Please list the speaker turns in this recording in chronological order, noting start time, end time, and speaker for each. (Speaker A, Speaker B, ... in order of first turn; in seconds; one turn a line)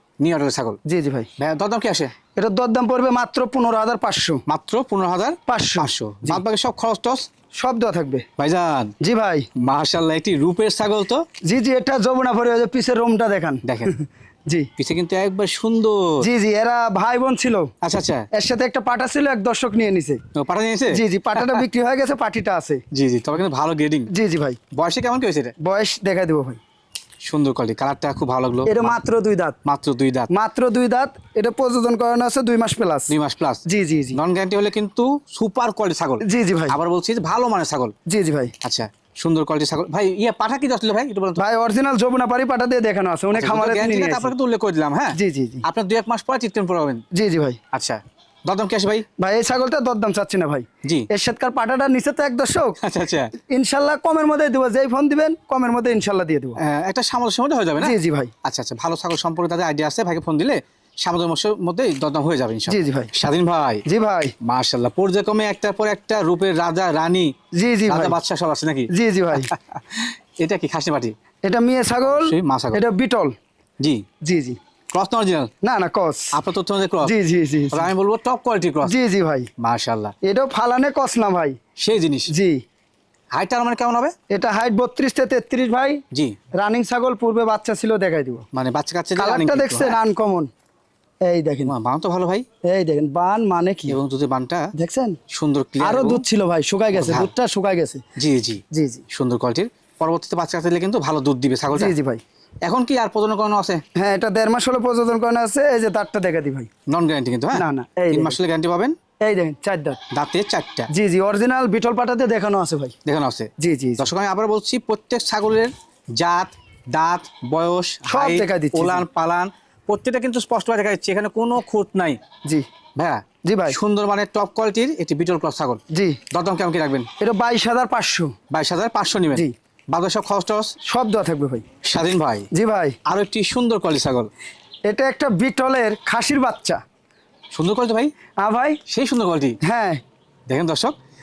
Speaker A: 0.2-0.8
Speaker B: 0.8-1.3
Speaker A: 1.4-2.1
Speaker B: 2.4-4.4
Speaker A: 4.5-7.3
Speaker B: 5.5-6.4
Speaker B: 7.6-8.2
Speaker A: 8.4-8.9
Speaker B: 9.0-9.5
Speaker A: 9.6-11.2
Speaker B: 11.4-14.7
Speaker A: 13.6-13.9
Speaker A: 14.8-16.3
Speaker B: 16.2-17.7
Speaker A: 17.8-18.3
Speaker B: 18.3-20.2
Speaker A: 20.3-21.6
Speaker B: 20.9-22.8
Speaker A: 22.9-24.1
Speaker B: 24.1-24.6
Speaker A: 24.7-25.6
Speaker B: 25.6-26.6
Speaker A: 27.2-29.0
Speaker B: 28.7-29.6
Speaker A: 29.6-30.3
Speaker B: 30.3-33.1
Speaker A: 33.1-37.9
Speaker B: 33.7-34.2
Speaker B: 36.2-36.8
Speaker B: 38.1-38.5
Speaker A: 38.6-41.4
Speaker B: 41.4-44.3
Speaker A: 43.3-47.0
Speaker B: 45.1-45.6
Speaker B: 47.1-47.6
Speaker A: 47.7-49.1
Speaker B: 49.2-52.8
Speaker A: 52.8-53.3
Speaker B: 53.5-56.6
Speaker A: 56.6-63.8
Speaker B: 57.8-58.3
Speaker B: 62.7-63.1
Speaker B: 63.9-64.3
Speaker A: 64.4-67.3
Speaker B: 67.5-68.2
Speaker A: 67.9-71.1
Speaker B: 68.9-69.5
Speaker B: 71.4-73.3
Speaker A: 72.1-72.8
Speaker B: 74.2-74.6
Speaker A: 74.9-75.5
Speaker B: 75.6-76.4
Speaker A: 76.3-77.1
Speaker B: 77.0-77.9
Speaker A: 77.7-79.0
Speaker B: 78.8-79.5
Speaker A: 79.6-80.1
Speaker B: 80.2-81.6
Speaker A: 81.8-82.3
Speaker B: 82.3-82.6
Speaker A: 83.3-84.1
Speaker B: 84.3-86.0
Speaker B: 86.6-88.5
Speaker A: 88.5-90.0
Speaker B: 89.2-90.5
Speaker B: 91.3-91.7
Speaker A: 91.7-92.5
Speaker B: 92.7-94.0
Speaker A: 93.9-94.7
Speaker B: 94.8-95.2
Speaker A: 95.3-96.2
Speaker B: 95.8-98.0
Speaker A: 96.9-97.3
Speaker A: 98.2-101.9
Speaker B: 98.7-99.0
Speaker B: 101.7-102.2
Speaker A: 102.6-103.8
Speaker B: 104.0-106.7
Speaker A: 106.9-109.0
Speaker B: 107.5-108.4
Speaker B: 109.2-110.0
Speaker A: 110.1-110.9
Speaker B: 110.9-112.9
Speaker A: 113.0-122.2
Speaker B: 113.6-114.1
Speaker B: 118.1-119.0
Speaker A: 123.0-127.1
Speaker B: 123.4-123.8
Speaker B: 125.9-126.2
Speaker B: 127.2-128.3
Speaker A: 128.5-130.7
Speaker B: 130.8-131.6
Speaker A: 131.8-132.5
Speaker B: 132.5-133.0
Speaker A: 133.1-134.3
Speaker B: 134.9-136.8
Speaker A: 137.5-138.1
Speaker B: 138.4-138.8
Speaker A: 138.9-139.6
Speaker B: 139.6-140.0
Speaker A: 140.5-141.0